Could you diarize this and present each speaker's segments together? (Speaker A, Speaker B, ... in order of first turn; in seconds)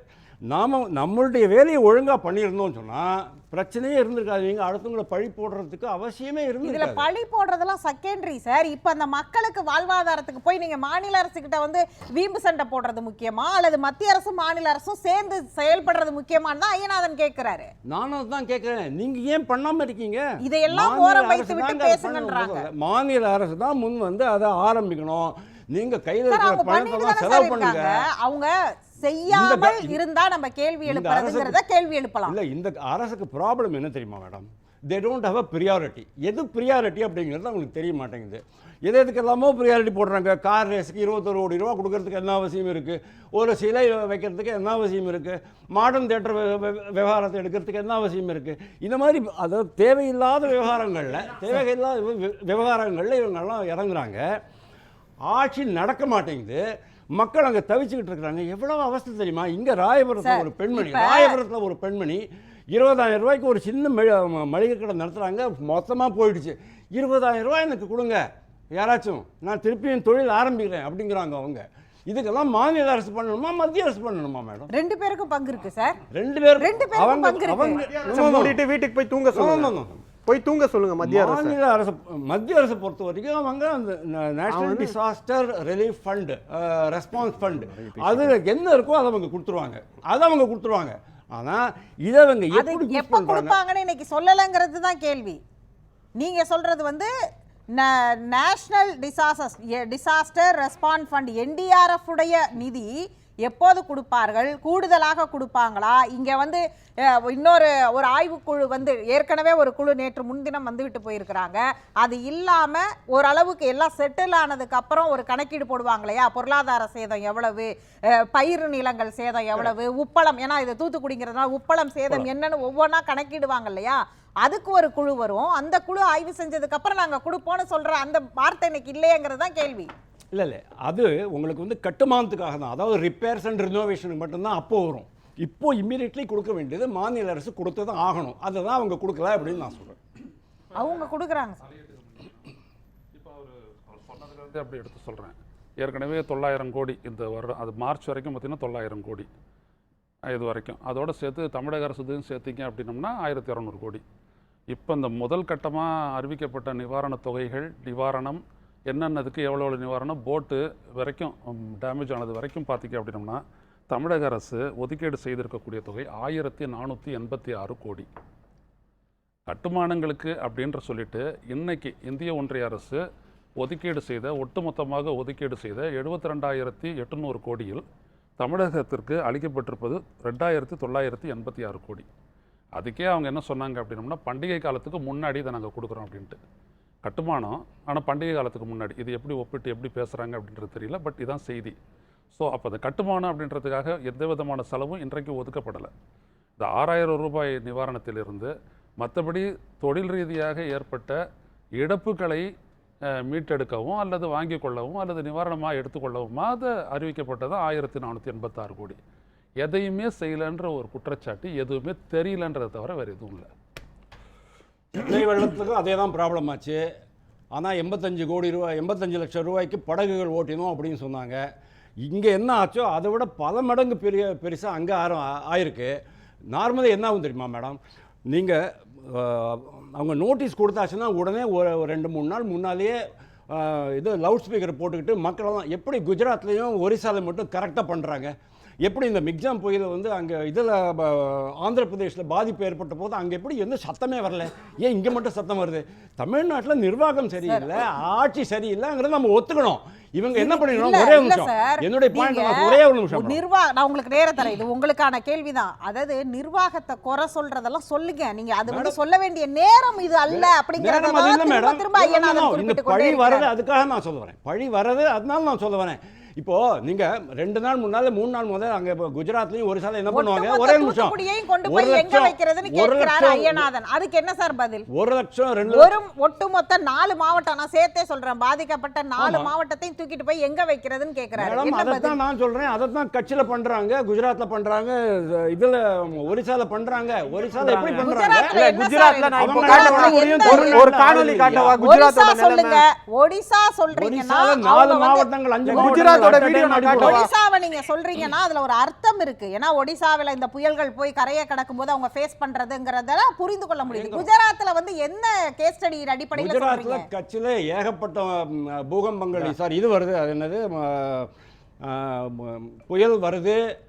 Speaker A: 0.5-7.0, 17.9-28.0, 29.3-30.0, 30.9-31.6, 32.2-54.2, 55.3-56.6, 57.1-68.2, 68.7-74.7, 76.1-78.6, 79.3-80.0, 81.0-93.5, 130.3-140.0, 214.9-216.8, 217.5-221.4, 222.1-225.9, 226.5-227.8, 228.3-233.0, 233.5-238.3, 238.8-253.4, 258.7-258.9, 260.3-273.7, 274.9-275.9, 279.2-279.5, 281.4-288.6, 289.4-291.8, 293.9-297.2, 303.9-304.3, 306.3-311.3, 311.8-313.6
Speaker B: 6.6-17.7, 20.4-22.7, 26.3-32.3, 60.2-61.4, 74.7-76.0, 76.6-77.9, 92.5-95.4, 96.2-97.1, 97.8-102.9, 103.4-129.9, 140.7-141.6, 247.4-247.8, 250.3-263.5, 270.1-274.9, 275.6-282.2, 288.0-290.9, 291.8-296.4, 296.9-307.1
Speaker C: 77.8-81.6, 84.5-84.9, 87.8-88.2, 287.6-292.8, 295.7-297.3
Speaker D: 141.7-142.5, 143.1-149.3, 150.3-154.0, 154.7-168.1, 169.5-173.0, 173.6-177.8, 178.4-182.1, 182.7-186.4, 187.0-191.8, 192.3-195.9, 196.6-201.2, 201.8-202.5, 203.2-209.0, 209.6-213.5